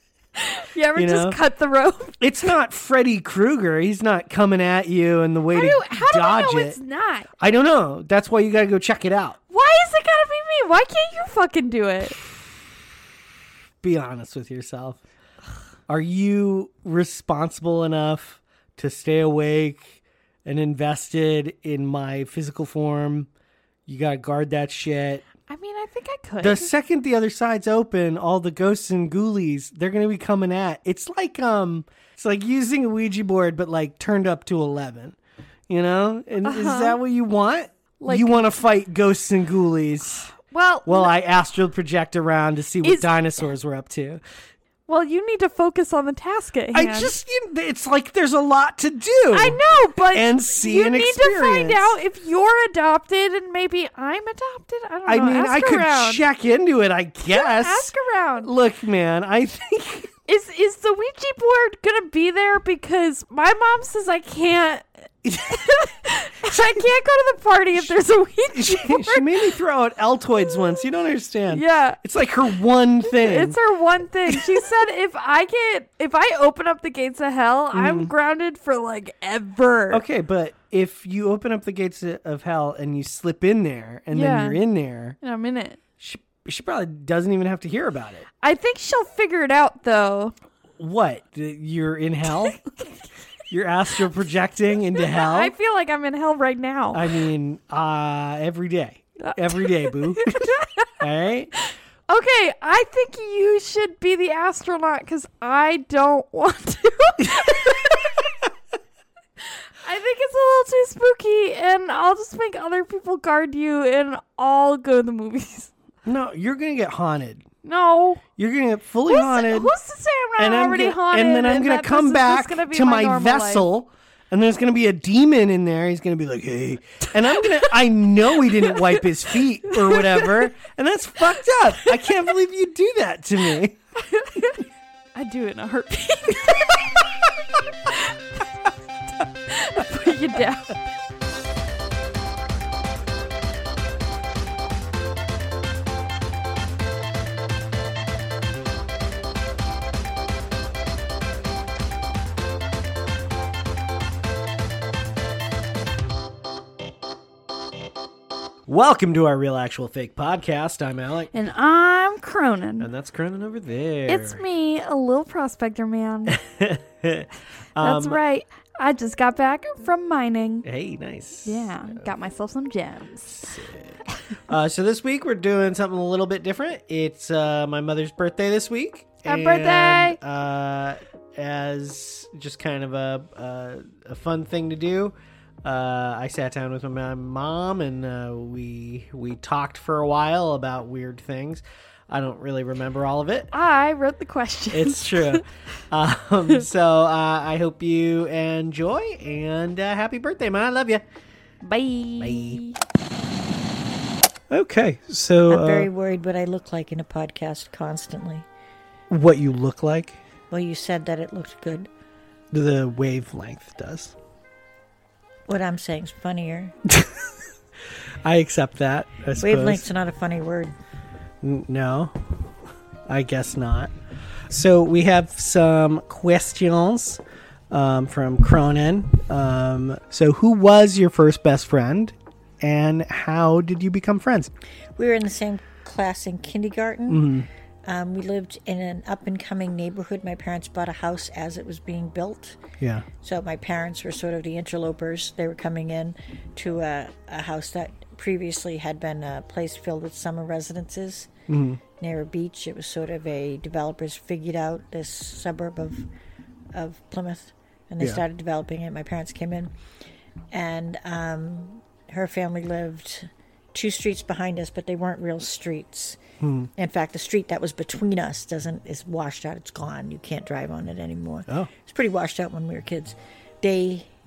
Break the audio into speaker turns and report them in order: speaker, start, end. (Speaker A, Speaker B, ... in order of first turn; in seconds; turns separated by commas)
Speaker A: 0.3-2.2, Speaker B: 0.9-1.4, Speaker B: 2.2-6.8, Speaker A: 5.5-7.3, Speaker B: 7.4-9.4, Speaker A: 9.5-12.2, Speaker B: 13.8-15.0, Speaker B: 15.9-23.3, Speaker B: 23.9-25.2, Speaker A: 25.5-26.7, Speaker B: 26.4-35.2, Speaker B: 35.7-40.3, Speaker A: 36.4-37.0, Speaker A: 38.0-38.5, Speaker A: 40.3-41.1, Speaker B: 40.8-44.2, Speaker A: 42.8-43.2, Speaker A: 44.9-47.1, Speaker B: 46.7-51.9, Speaker A: 49.3-56.2, Speaker B: 55.0-57.9, Speaker A: 57.3-58.5, Speaker B: 58.4-60.1, Speaker A: 60.3-69.5, Speaker B: 65.2-65.6, Speaker B: 66.5-66.8, Speaker B: 68.5-73.6, Speaker A: 70.5-70.8, Speaker A: 71.5-72.0, Speaker A: 73.0-80.0, Speaker B: 74.3-74.6, Speaker B: 77.7-78.1, Speaker B: 79.9-85.2, Speaker A: 84.1-84.6, Speaker A: 85.2-85.8, Speaker B: 86.0-88.2, Speaker A: 88.4-90.3, Speaker B: 90.8-92.6, Speaker B: 93.5-95.5, Speaker A: 94.9-97.1, Speaker B: 96.9-101.5, Speaker A: 99.2-100.9, Speaker A: 101.6-108.3, Speaker B: 107.3-107.9, Speaker A: 109.4-115.7, Speaker B: 116.0-117.5, Speaker A: 117.6-118.2, Speaker B: 118.4-119.7, Speaker A: 119.1-123.7, Speaker B: 120.4-133.8, Speaker A: 129.7-130.4, Speaker A: 134.0-137.0, Speaker A: 137.9-138.2, Speaker A: 139.4-140.8, Speaker B: 158.7-161.3, Speaker A: 161.3-162.9, Speaker B: 162.8-164.4, Speaker A: 164.1-166.4, Speaker B: 166.3-168.2, Speaker A: 167.8-170.7, Speaker B: 170.6-172.1, Speaker A: 171.4-173.5, Speaker B: 173.3-193.5, Speaker A: 179.2-180.2, Speaker A: 193.5-195.4, Speaker B: 194.7-201.0, Speaker A: 201.6-202.8, Speaker B: 202.2-202.6, Speaker B: 204.5-205.9, Speaker C: 205.5-208.4, Speaker B: 209.1-210.2, Speaker C: 210.5-211.9, Speaker B: 212.5-214.1, Speaker C: 215.5-216.7, Speaker B: 216.9-217.3, Speaker B: 218.2-219.8, Speaker C: 219.4-220.7, Speaker B: 221.4-222.5, Speaker B: 223.1-223.9, Speaker B: 224.5-234.5, Speaker C: 235.0-242.6, Speaker B: 237.1-237.5, Speaker B: 242.8-243.1, Speaker C: 243.2-251.3, Speaker B: 251.5-251.8, Speaker C: 252.0-256.1, Speaker C: 256.7-259.7, Speaker C: 260.5-266.2, Speaker B: 266.4-266.7, Speaker C: 266.8-274.1